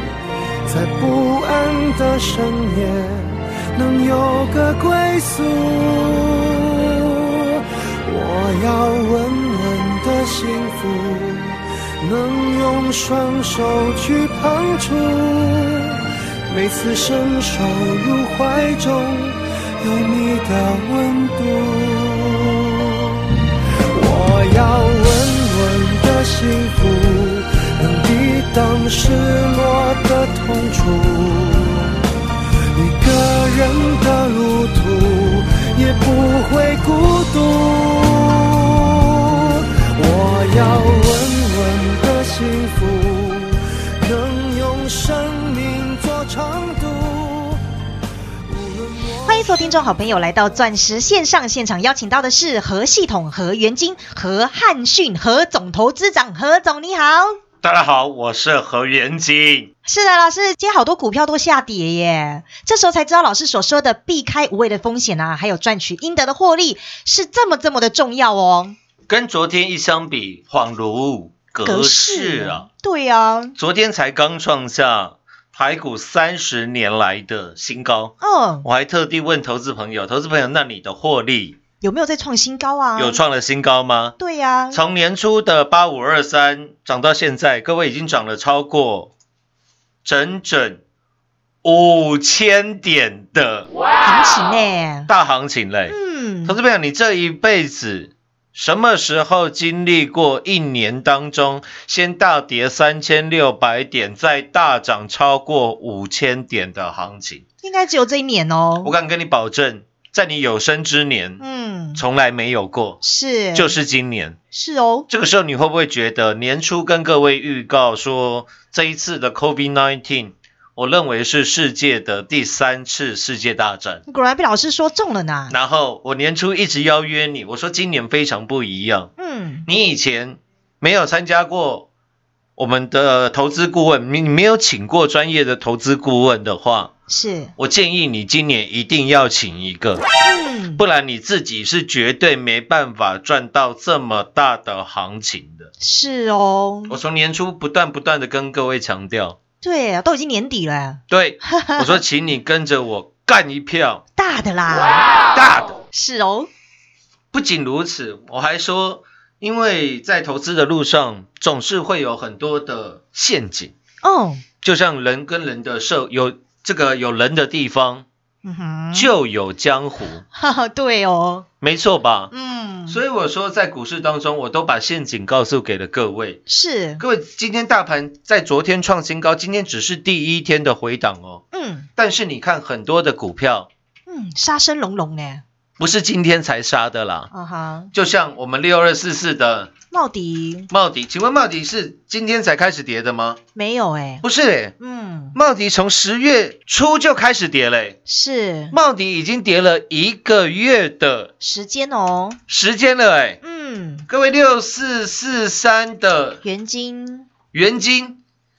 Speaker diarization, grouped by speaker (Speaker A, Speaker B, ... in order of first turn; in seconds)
Speaker A: 0.7-16.0, 16.5-23.3, 23.9-31.9, 32.7-47.6, 48.5-49.4
Speaker B: 49.2-57.3, 59.8-68.7, 71.6-73.5, 78.2-78.7, 81.8-83.2, 84.2-84.8, 94.0-95.1, 95.9-96.5, 107.6-108.9, 111.4-112.0, 113.0-113.7, 114.5-115.1, 124.1-125.5, 129.2-129.7, 137.1-137.5, 140.2-140.8, 145.8-146.9, 149.6-152.0, 154.2-155.0, 155.9-156.5, 164.0-164.4, 168.4-169.1, 170.3-171.5, 172.3-173.0, 176.5-177.0, 181.5-181.9, 184.1-185.4, 187.3-187.9, 189.9-190.7, 193.6-194.2, 194.8-195.3, 198.1-198.8, 201.4-202.4, 203.4-204.1, 206.4-207.3
Speaker C: 57.6-59.7, 69.1-72.7, 73.6-81.6, 83.0-84.2, 84.7-89.1, 90.0-90.8, 91.6-93.7, 95.1-107.4, 108.8-111.4, 111.9-113.0, 113.5-114.4, 115.1-124.0, 125.5-129.1, 129.7-131.9, 132.6-136.9, 137.6-140.0, 140.8-145.7, 146.9-149.4, 151.1-154.0, 155.3-155.8, 157.3-163.7, 164.6-168.1, 168.9-170.2, 171.6-172.3, 172.9-176.4, 177.0-181.4, 182.0-183.7, 185.8-187.3, 187.9-189.7, 190.7-193.4, 194.2-194.8, 195.3-198.0, 198.7-201.3, 202.5-203.4, 204.1-206.4, 207.5-208.2